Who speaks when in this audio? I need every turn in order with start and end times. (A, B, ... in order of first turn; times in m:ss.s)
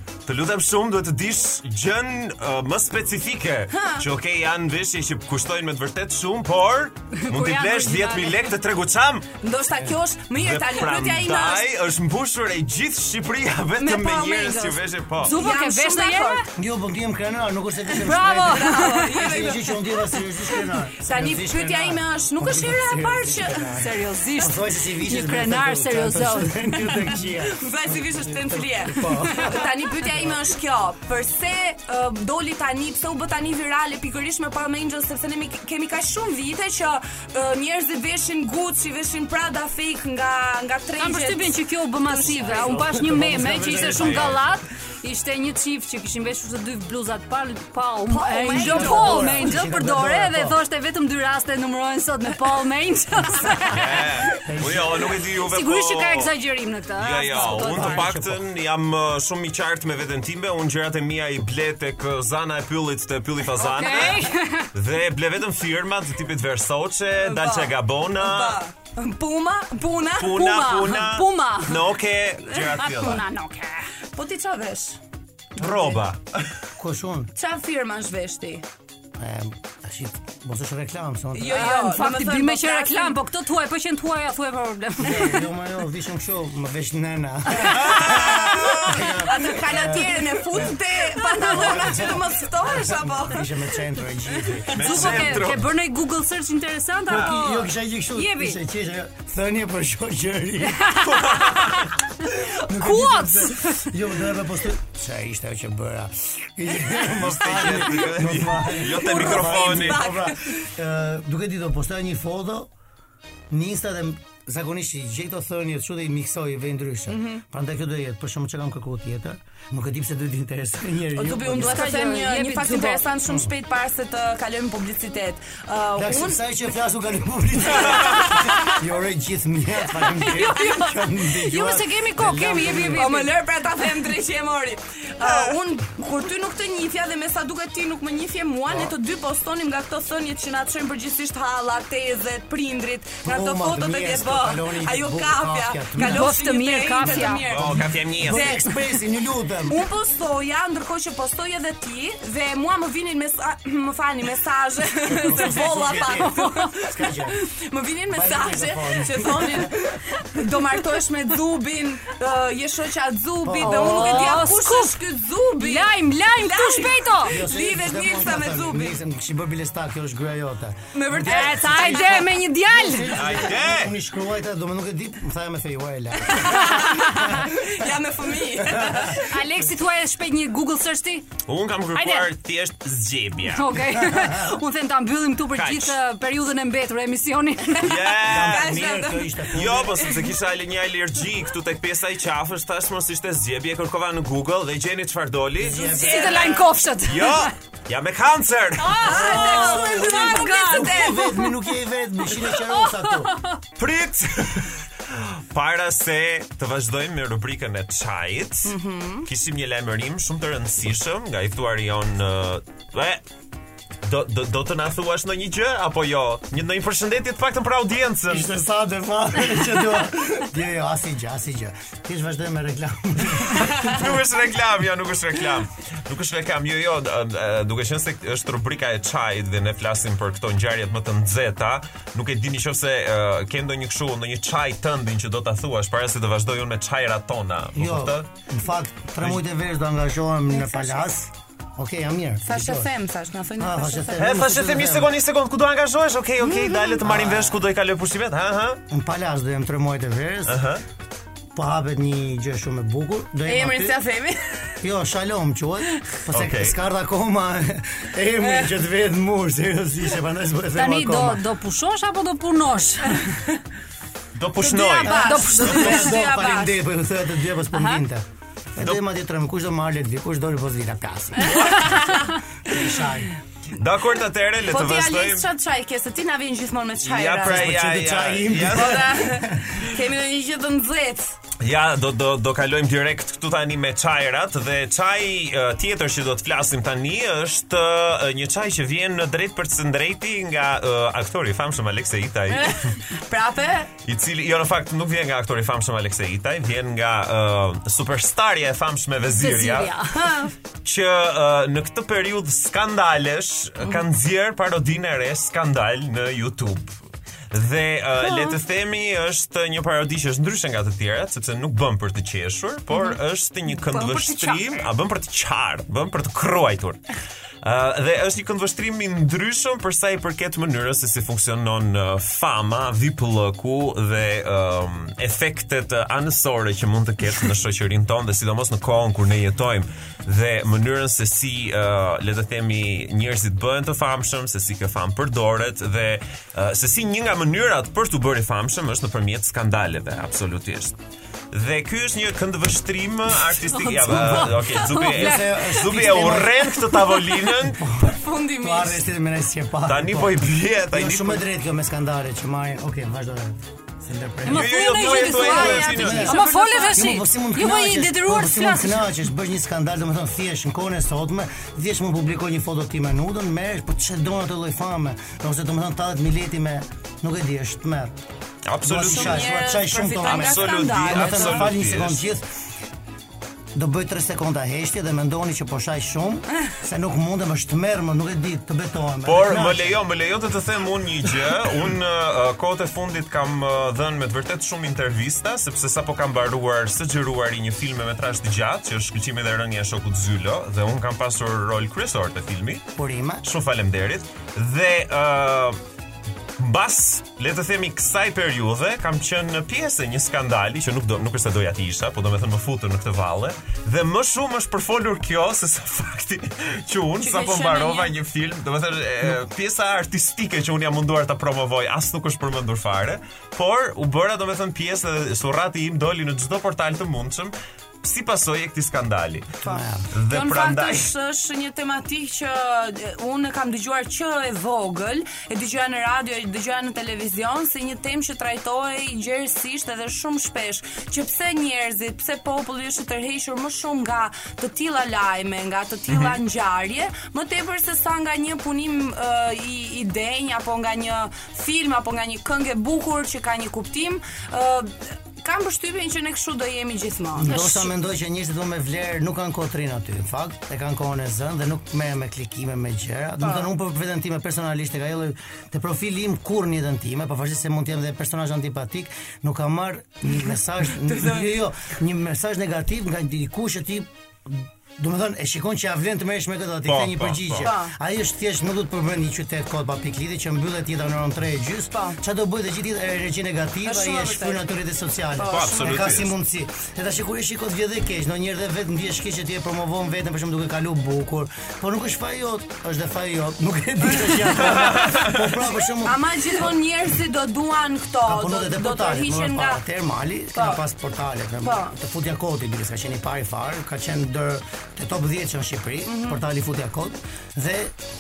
0:00.2-0:09.3 A
0:03.7-0:04.1 B
0:07.1-0:08.5 C
0:09.4-0:11.7 B
0:10.3-0:15.3 A
0:13.8-0:16.5 B
0:15.2-0:16.5 C
0:16.6-0:30.4 D
0:18.0-0:19.4 C
0:18.4-0:20.1 B
0:21.0-0:23.8 B
0:23.8-0:26.9 C
0:27.4-0:42.9 B
0:41.0-0:54.0 C
0:42.2-0:44.5 D
0:43.6-0:44.4 A
0:48.1-0:49.5 B
0:48.5-0:50.6 D
0:53.7-0:56.3 A
0:53.9-0:55.2 D
0:55.3-0:58.1 C
0:57.0-1:08.6 A
0:57.3-0:58.5 D
1:03.6-1:04.7 C
1:07.2-1:10.4 B
1:10.2-1:13.2 A
1:10.3-1:12.0 C
1:12.5-1:12.9 B
1:12.8-1:13.9 C
1:14.1-1:15.0 B
1:15.6-1:16.5 A
1:15.6-1:16.0 B
1:16.8-1:17.3 D
1:17.4-1:18.6 B
1:19.2-1:21.8 D
1:21.3-1:23.2 B
1:21.5-1:25.4 C
1:25.0-1:30.8 D
1:27.7-1:29.0 A
1:29.2-1:33.5 B
1:31.2-1:31.8 C
1:31.3-1:35.6 D
1:34.4-1:34.6 B
1:34.7-1:35.7 A
1:34.8-1:38.6 C
1:37.1-1:41.0 D
1:40.8-1:41.6 C
1:41.0-1:41.9 A
1:42.2-1:52.7 D
1:42.7-1:43.9 C
1:46.9-1:50.1 A
1:48.8-1:50.6 B
1:53.5-2:01.9 D
1:57.1-1:57.4 B
2:01.2-2:06.4 B
2:01.6-2:03.0 C
2:03.2-2:03.5 D
2:06.0-2:13.2 D
2:08.0-2:08.4 B
2:10.0-2:13.3 C
2:12.9-2:28.8 B
2:23.2-2:26.3 D
2:26.0-2:27.5 C
2:27.0-2:29.8 D
2:27.5-2:28.5 A
2:29.7-2:49.0 B
2:35.0-2:37.4 D
2:36.2-2:36.7 C
2:38.1-2:39.9 D
2:43.4-2:44.4 D
2:43.6-2:45.0 C
2:45.6-2:47.4 C
2:47.2-2:57.9 D
2:50.9-2:52.2 B
2:51.2-2:53.2 C
2:53.1-2:53.9 A
2:56.3-2:59.2 B
2:56.4-2:57.4 C
2:58.6-2:59.1 D
2:59.2-3:01.3 C
3:01.5-3:03.8 A
3:01.9-3:02.3 C
3:03.5-3:08.1 C
3:04.1-3:04.4 D
3:05.5-3:06.0 A
3:07.8-3:08.8 A
3:08.2-3:10.2 D
3:08.2-3:09.5 B
3:09.5-3:15.9 A
3:15.6-3:16.6 D
3:15.9-3:16.7 B
3:16.0-3:17.5 C
3:17.0-3:19.2 A
3:18.8-3:21.5 C
3:19.0-3:23.3 D
3:19.0-3:21.5 B
3:22.4-3:23.6 C
3:23.8-3:33.2 A
3:28.6-3:29.3 B
3:34.0-3:38.5 A
3:38.3-3:44.0 D
3:43.5-3:58.3 A
3:57.7-4:02.9 D
4:00.5-4:01.1 B
4:02.4-4:04.4 B
4:03.6-4:05.1 D
4:04.2-4:08.8 A
4:06.4-4:07.0 B
4:07.0-4:07.6 D
4:08.9-4:10.6 D
4:10.5-4:10.8 A
4:11.5-4:14.0 D
4:13.4-4:14.7 B
4:14.8-4:21.4 D
4:16.3-4:16.7 A
4:18.4-4:18.7 B
4:20.8-4:23.2 C
4:24.3-4:25.3 A
4:24.6-4:26.8 B
4:24.6-4:26.1 C
4:25.1-4:33.3 D
4:27.7-4:28.0 C
4:31.6-4:32.2 C
4:33.7-4:35.4 A
4:34.6-4:37.8 B
4:37.0-4:39.2 A
4:37.4-4:40.0 D
4:38.6-4:41.4 B
4:41.6-4:53.0 A
4:52.5-4:53.9 B
4:54.0-4:59.9 A
4:59.3-5:00.2 C
5:00.1-5:00.5 B
5:00.8-5:07.0 A
5:03.8-5:04.1 B
5:07.5-5:17.0 A
5:08.2-5:08.6 B
5:12.9-5:13.2 B
5:13.8-5:14.6 B
5:14.0-5:14.6 C
5:17.6-5:41.0 A
5:41.5-5:47.8 A
5:43.6-5:45.8 C
5:44.0-6:08.2 D
5:48.0-5:49.1 B
5:49.8-5:51.4 A
5:54.4-5:59.2 C
5:54.4-5:56.4 A
5:55.0-5:57.1 B
6:08.7-6:09.5 A
6:08.8-6:12.4 D
6:09.0-6:11.8 B
6:10.2-6:12.2 A
6:13.7-6:20.0 D
6:19.2-6:32.8 A
6:32.9-6:33.4 D
6:33.4-6:35.8 A
6:36.6-6:59.5 A
6:47.2-6:48.1 B
6:59.6-7:00.1 D
6:59.6-7:27.9 B
7:00.1-7:01.1 A
7:16.1-7:16.4 A
7:27.3-8:06.7 D
7:27.5-7:27.9 C
7:33.4-7:33.7 B
7:41.0-7:41.5 B
7:46.8-7:47.7 A
7:47.6-7:47.9 B
7:53.8-7:54.6 B
7:55.4-7:56.2 B
7:55.5-7:56.3 A
8:04.6-8:05.4 A
8:06.0-8:09.8 B
8:08.2-8:17.9 D
8:10.5-8:10.8 B
8:11.6-8:11.9 B
8:16.0-8:16.4 B